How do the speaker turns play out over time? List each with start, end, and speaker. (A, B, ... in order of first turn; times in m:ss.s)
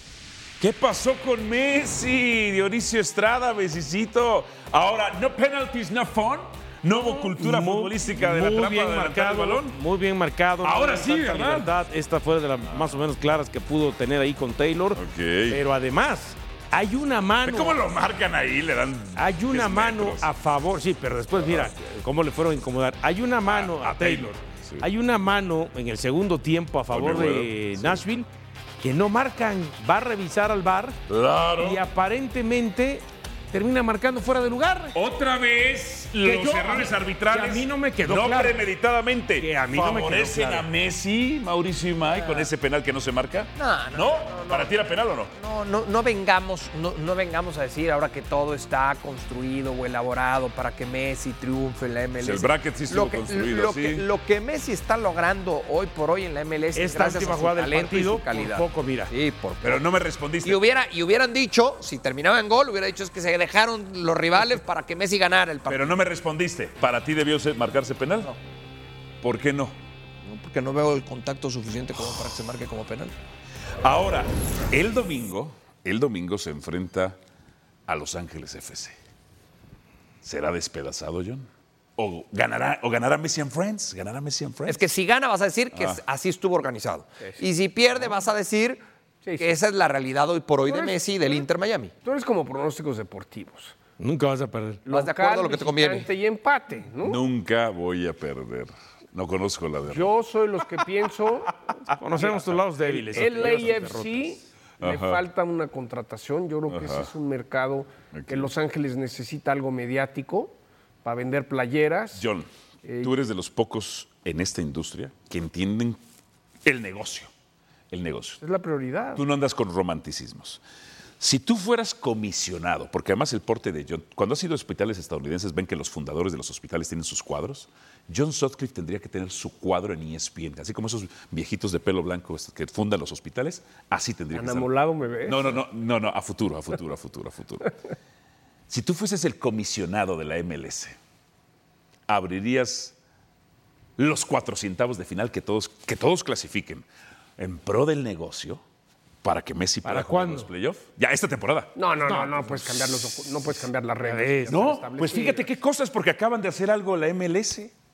0:00.6-0:09.8 A
0:06.9-0:17.8 B
0:10.6-0:11.7 A
0:12.7-0:13.0 A
0:15.0-0:15.6 A
0:17.4-0:20.3 A
0:19.2-0:28.3 B
0:21.4-0:21.7 A
0:23.5-0:24.9 A
0:26.9-0:28.0 A
0:28.8-0:31.0 B
0:31.1-0:31.8 A
0:31.6-0:35.0 B
0:35.0-0:45.3 A
0:36.2-0:38.6 B
0:39.4-0:40.7 B
0:42.1-0:42.5 C
0:43.6-0:44.7 C
0:45.4-0:59.8 C
0:52.2-0:54.0 A
0:56.8-0:59.1 B
0:59.6-1:00.6 A
1:00.4-1:06.0 C
1:05.7-1:08.3 A
1:09.2-1:09.8 A
1:10.2-1:13.2 C
1:13.8-1:17.2 A
1:17.9-1:19.0 A
1:20.2-1:24.8 A
1:24.7-1:28.8 C
1:25.7-1:26.0 A
1:29.2-1:29.5 D
1:29.4-1:31.9 C
1:30.7-1:31.0 D
1:32.0-1:33.8 D
1:34.0-1:34.8 B
1:34.9-1:37.2 D
1:34.9-1:36.1 C
1:37.0-1:40.1 A
1:39.9-1:41.5 D
1:42.0-1:44.4 B
1:42.2-1:52.2 D
1:44.8-1:45.2 A
1:46.7-1:47.1 A
1:48.1-1:48.5 A
1:52.1-1:52.5 A
1:52.8-1:53.1 D
1:53.0-1:56.0 A
1:56.6-1:57.3 A
1:57.9-1:58.4 A
1:58.4-1:59.2 D
1:59.2-2:00.6 A
2:01.2-2:14.7 A
2:14.3-2:15.6 D
2:15.2-2:17.8 A
2:18.7-2:21.0 A
2:22.1-2:23.0 A
2:24.0-2:26.8 A
2:27.4-2:28.6 A
2:29.2-2:31.7 A
2:29.8-2:30.5 B
2:31.8-2:35.5 D
2:32.0-2:32.6 B
2:34.0-2:34.6 B
2:34.5-2:37.7 A